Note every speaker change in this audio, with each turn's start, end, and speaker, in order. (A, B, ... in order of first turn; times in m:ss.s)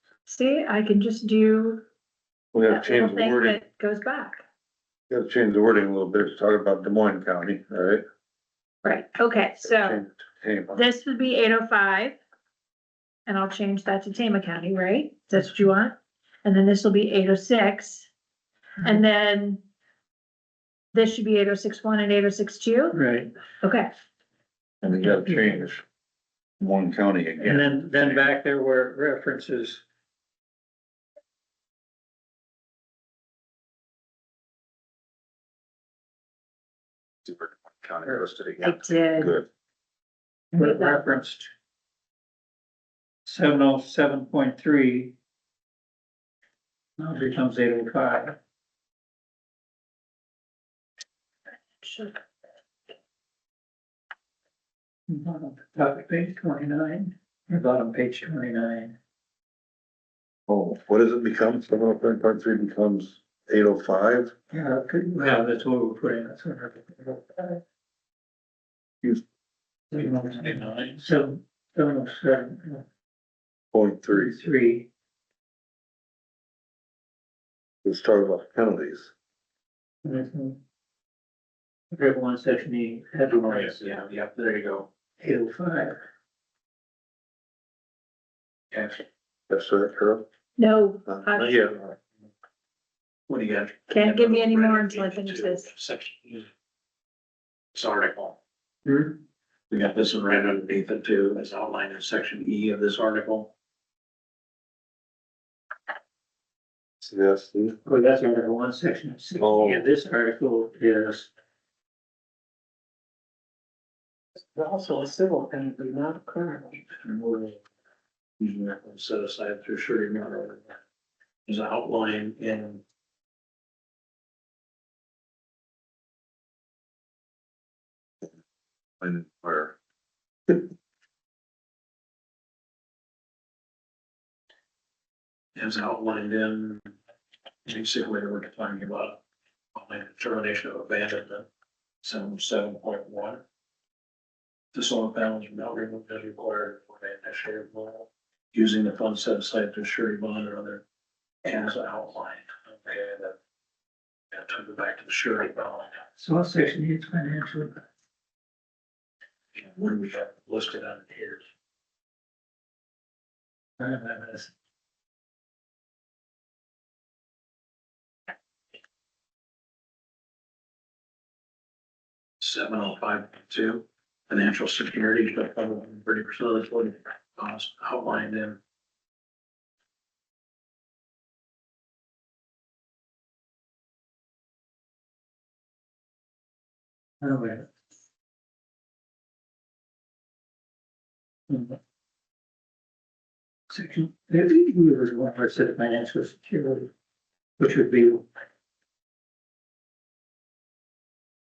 0:00.2-0:01.8 A
0:02.5-0:03.6 B
0:02.6-0:04.4 A
0:05.1-0:08.0 B
0:08.8-0:10.0 A
0:09.6-0:10.8 B
0:10.7-0:12.2 A
0:13.2-0:18.1 A
0:18.8-0:19.6 A
0:20.9-0:23.0 A
0:22.9-0:23.3 C
0:23.6-0:23.9 A
0:24.8-0:25.8 B
0:25.0-0:25.6 C
0:26.6-0:28.2 B
0:27.4-0:29.8 C
0:37.2-0:39.5 B
0:38.6-0:39.3 A
0:40.5-0:41.5 C
0:40.6-0:41.0 A
0:43.2-0:45.1 C
0:47.0-0:48.4 C
0:51.8-0:52.2 A
0:55.1-0:59.0 C
1:00.5-1:04.3 B
1:04.5-1:07.6 C
1:09.9-1:12.8 C
1:09.9-1:11.0 D
1:13.7-1:14.4 B
1:14.1-1:14.9 C
1:17.8-1:19.1 B
1:20.0-1:20.6 C
1:21.9-1:23.9 C
1:23.5-1:24.9 D
1:25.2-1:26.0 C
1:28.7-1:29.0 D
1:29.5-1:30.2 B
1:30.6-1:31.6 A
1:31.1-1:31.9 B
1:33.3-1:36.5 D
1:33.9-1:35.7 A
1:37.7-1:38.4 D
1:38.8-1:39.2 C
1:39.7-1:43.5 D
1:47.0-1:47.8 B
1:47.8-1:51.3 C
1:49.4-1:49.9 B
1:54.5-1:56.8 E
1:56.9-1:57.6 D
1:58.4-2:00.8 D
2:01.5-2:02.8 D
2:09.0-2:09.7 B
2:15.5-2:16.9 D
2:17.6-2:19.2 D
2:19.7-2:21.5 D
2:22.0-2:23.4 D
2:24.7-2:30.8 D
2:31.4-2:33.3 D
2:34.3-2:36.1 D
2:36.2-2:37.8 C
2:39.5-2:41.4 D
2:43.8-2:44.5 C
2:52.4-2:58.6 D
3:07.2-3:07.6 C
3:11.5-3:11.8 C
3:13.7-3:16.9 C
3:17.6-3:18.2 C